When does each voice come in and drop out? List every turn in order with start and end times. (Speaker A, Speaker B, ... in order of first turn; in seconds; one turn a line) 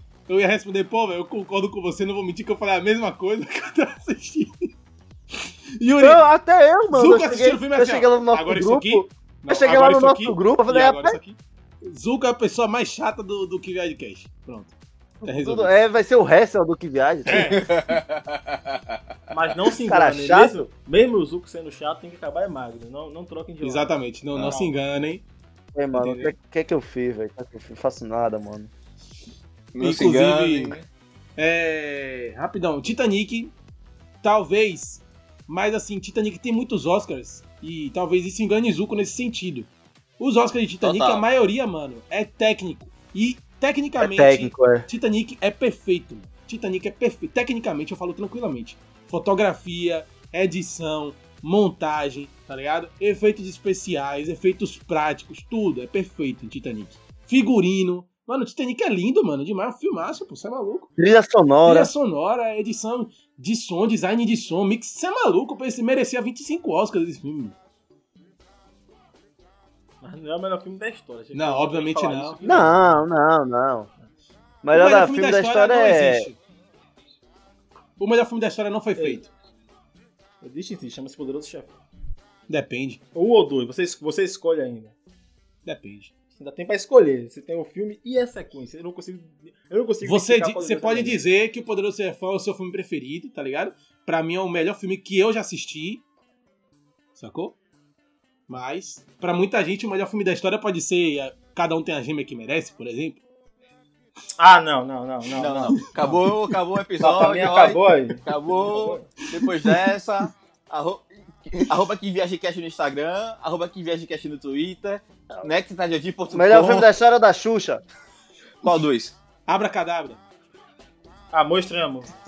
Speaker A: 0.3-4.7
Speaker A: 5.8-6.3
Speaker B: 6.0-11.2
Speaker A: 6.9-14.7
Speaker B: 15.2-17.6
Speaker A: 15.2-15.7
Speaker A: 17.3-17.6
Speaker C: 17.6-18.9
Speaker D: 19.3-23.9
Speaker B: 19.8-20.6
Speaker A: 23.6-25.2
Speaker D: 24.4-24.8
Speaker B: 25.7-28.7
Speaker A: 25.9-26.3
Speaker C: 29.7-30.9
Speaker A: 29.8-30.8
Speaker A: 31.4-33.5
Speaker A: 34.2-60.9
Speaker C: 40.8-41.2
Speaker B: 44.0-44.9
Speaker B: 61.0-61.9
Speaker A: 61.6-67.5
Speaker D: 70.0-73.0
Speaker A: 71.3-72.4
Speaker B: 72.4-73.9
Speaker B: 74.6-76.3
Speaker A: 74.7-76.4
Speaker A: 78.0-79.3
Speaker D: 79.0-79.2
Speaker D: 80.4-81.8
Speaker A: 82.5-83.0
Speaker D: 83.1-85.0
Speaker A: 85.6-86.1
Speaker D: 86.4-91.2
Speaker A: 90.0-96.0
Speaker A: 97.2-97.5
Speaker A: 98.5-103.2
Speaker D: 104.4-105.9
Speaker C: 105.4-116.9
Speaker A: 106.0-106.3
Speaker D: 107.0-109.1
Speaker A: 109.3-109.9
Speaker B: 116.3-117.8
Speaker C: 118.6-119.2
Speaker A: 119.5-120.2
Speaker D: 121.3-122.1